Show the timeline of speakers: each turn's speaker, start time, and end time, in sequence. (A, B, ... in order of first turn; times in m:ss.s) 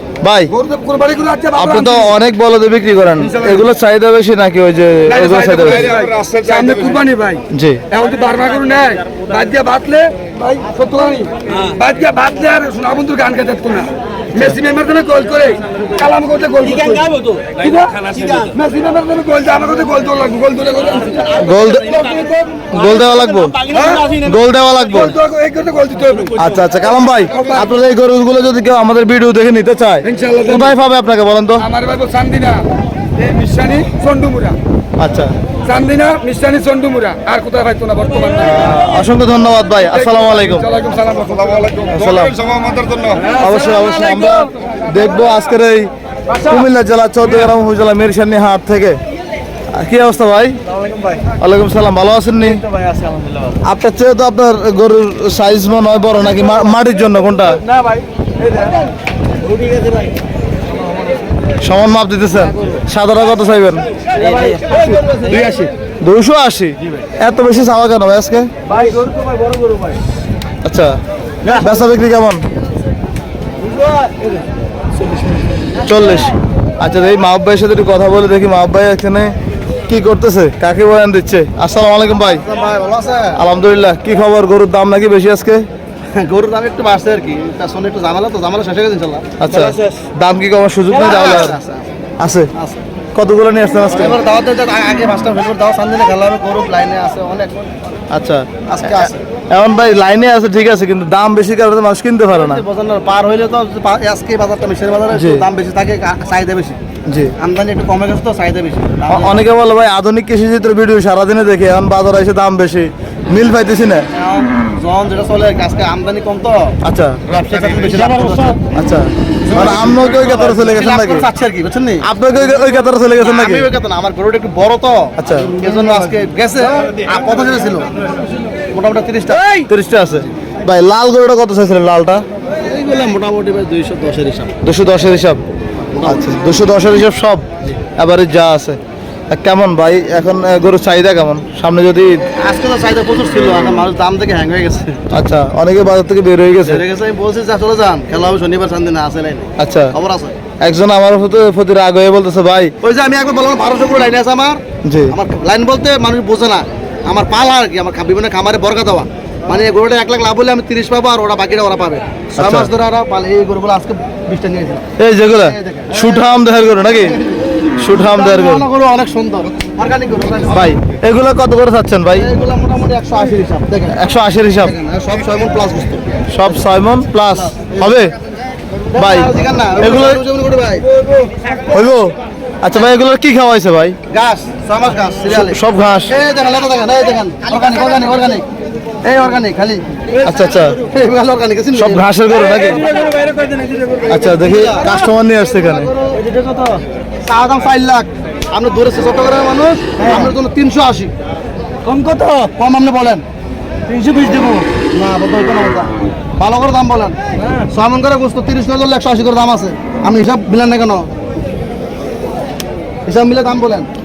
0:00.2-0:00.5 A
0:00.5-0:02.2 B
0:01.6-0:05.9 A
0:03.2-0:03.7 B
0:05.1-0:22.6 B
0:05.9-0:07.0 C
0:07.5-0:07.8 A
0:18.2-0:18.5 D
0:21.4-0:22.1 A
0:22.7-0:25.2 A
0:23.7-0:24.3 B
0:24.9-0:26.5 B
0:26.4-0:31.7 A
0:27.3-0:27.7 B
0:30.0-0:30.8 B
0:31.6-0:34.6 B
0:35.0-0:35.3 A
0:35.6-0:38.8 B
0:38.4-0:40.7 A
0:39.8-0:41.8 B
0:41.7-0:43.3 C
0:41.9-0:42.4 A
0:43.2-0:44.7 B
0:43.4-0:49.0 A
0:49.7-0:50.6 A
0:51.4-0:52.6 A
0:52.7-0:53.4 D
0:53.6-0:57.6 A
1:01.6-1:03.9 A
1:04.2-1:05.5 D
1:05.3-1:05.7 B
1:06.0-1:08.5 A
1:08.7-1:10.0 D
1:10.6-1:11.0 A
1:11.5-1:12.4 A
1:13.8-1:14.1 D
1:15.8-1:19.3 A
1:19.9-1:22.4 A
1:22.3-1:23.4 E
1:23.4-1:25.7 A
1:26.1-1:30.0 E
1:29.4-1:31.6 A
1:30.9-1:31.9 E
1:32.2-1:32.5 A
1:32.6-1:32.8 E
1:33.1-1:34.2 A
1:33.9-1:37.6 E
1:38.1-1:42.6 A
1:38.7-1:39.2 E
1:42.3-1:46.8 E
1:45.1-1:45.4 A
1:47.1-1:47.3 A
1:47.4-1:49.4 E
1:49.1-1:54.1 A
1:54.1-1:56.8 E
1:56.8-1:57.2 A
1:57.3-1:58.6 E
1:58.7-2:01.3 A
1:59.5-2:00.0 E
2:00.6-2:02.1 E
2:02.0-2:03.7 A
2:03.2-2:07.9 E
2:05.2-2:05.5 A
2:08.7-2:09.7 E
2:09.7-2:12.2 A
2:12.6-2:14.6 E
2:14.6-2:15.4 A
2:15.9-2:16.4 E
2:16.0-2:17.4 A
2:18.0-2:18.8 A
2:19.3-2:22.2 A
2:22.4-2:25.0 E
2:25.1-2:26.8 A
2:26.7-2:30.4 E
2:29.6-2:29.9 A
2:30.6-2:32.7 A
2:32.8-2:44.8 E
2:34.8-2:35.1 A
2:42.4-2:42.7 A
2:45.0-2:47.2 A
2:45.4-2:46.3 E
2:47.1-2:47.4 E
2:47.8-2:48.6 A
2:47.9-2:50.7 E
2:50.5-2:52.3 A
2:52.1-2:54.0 E
2:53.9-2:54.7 A
2:54.6-2:56.0 E
2:56.3-2:58.1 A
2:57.4-2:57.8 E
2:58.9-3:00.9 E
2:58.9-3:00.2 A
3:01.7-3:04.0 A
3:04.1-3:08.4 E
3:05.3-3:06.2 A
3:09.0-3:09.8 E
3:10.2-3:10.8 A
3:10.9-3:12.0 E
3:11.7-3:12.9 A
3:13.2-3:13.8 D
3:14.1-3:15.9 A
3:14.1-3:14.9 E
3:15.5-3:16.2 E
3:16.2-3:16.8 D
3:17.2-3:21.1 E
3:21.9-3:22.5 D
3:22.6-3:23.2 E
3:23.9-3:24.7 D
3:24.9-3:27.2 E
3:27.7-3:31.1 E
3:33.1-3:33.9 E